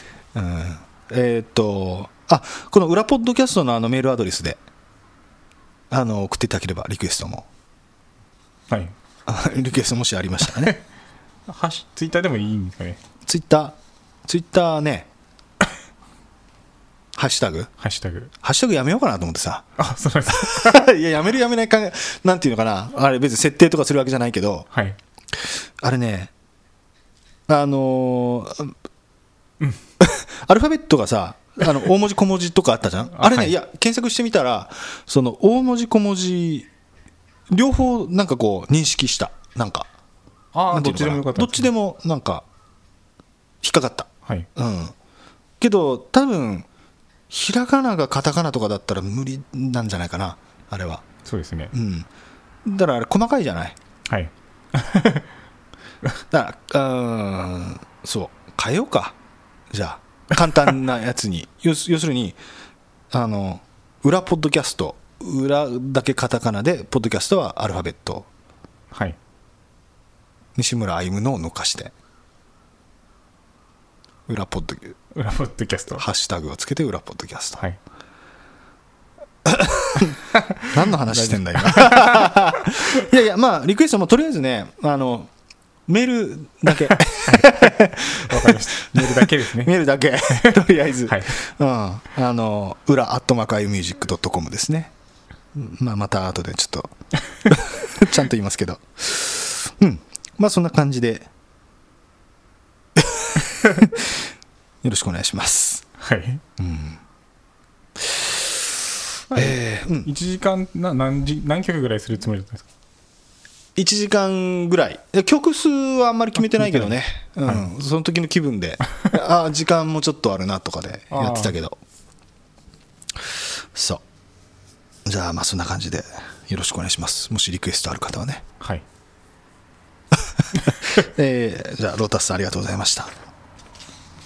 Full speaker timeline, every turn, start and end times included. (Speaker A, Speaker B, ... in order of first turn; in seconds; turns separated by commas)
Speaker A: 0.3-4.6, Speaker A: 5.9-7.5, Speaker B: 8.7-8.9, Speaker A: 9.3-10.8, Speaker B: 10.4-10.8, Speaker B: 11.5-13.0, Speaker A: 13.2-15.1, Speaker A: 17.1-17.7, Speaker B: 17.8-18.3, Speaker A: 18.4-19.6, Speaker B: 19.8-20.9, Speaker A: 20.3-24.7, Speaker B: 24.7-25.0, Speaker A: 25.3-26.3, Speaker A: 27.5-28.7, Speaker A: 30.0-36.7, Speaker B: 33.1-33.5, Speaker A: 37.5-39.9, Speaker B: 40.5-41.7, Speaker A: 40.7-42.4, Speaker A: 43.6-44.9, Speaker A: 45.6-46.7, Speaker A: 47.3-51.0, Speaker B: 51.2-51.7, Speaker A: 51.7-52.1, Speaker A: 52.6-53.8, Speaker B: 54.1-55.3, Speaker A: 56.3-59.1, Speaker A: 59.7-62.4, Speaker A: 63.1-68.3, Speaker B: 68.9-69.2, Speaker A: 70.5-71.9, Speaker A: 74.3-75.0, Speaker B: 75.1-76.0, Speaker A: 75.9-77.6, Speaker A: 79.4-80.2, Speaker B: 80.3-83.0, Speaker A: 80.7-85.3, Speaker A: 85.9-94.9, Speaker B: 87.2-87.5, Speaker B: 88.0-89.7, Speaker B: 90.3-91.4, Speaker A: 95.5-96.9, Speaker A: 97.4-101.3, Speaker A: 103.0-104.2, Speaker A: 104.8-105.8, Speaker B: 106.0-106.4, Speaker A: 106.6-107.0, Speaker A: 108.0-108.7, Speaker B: 109.3-112.7, Speaker A: 109.3-110.1, Speaker A: 113.8-121.8, Speaker B: 116.4-116.9, Speaker B: 121.1-121.5, Speaker A: 123.2-124.0, Speaker A: 125.0-128.4, Speaker A: 130.1-133.1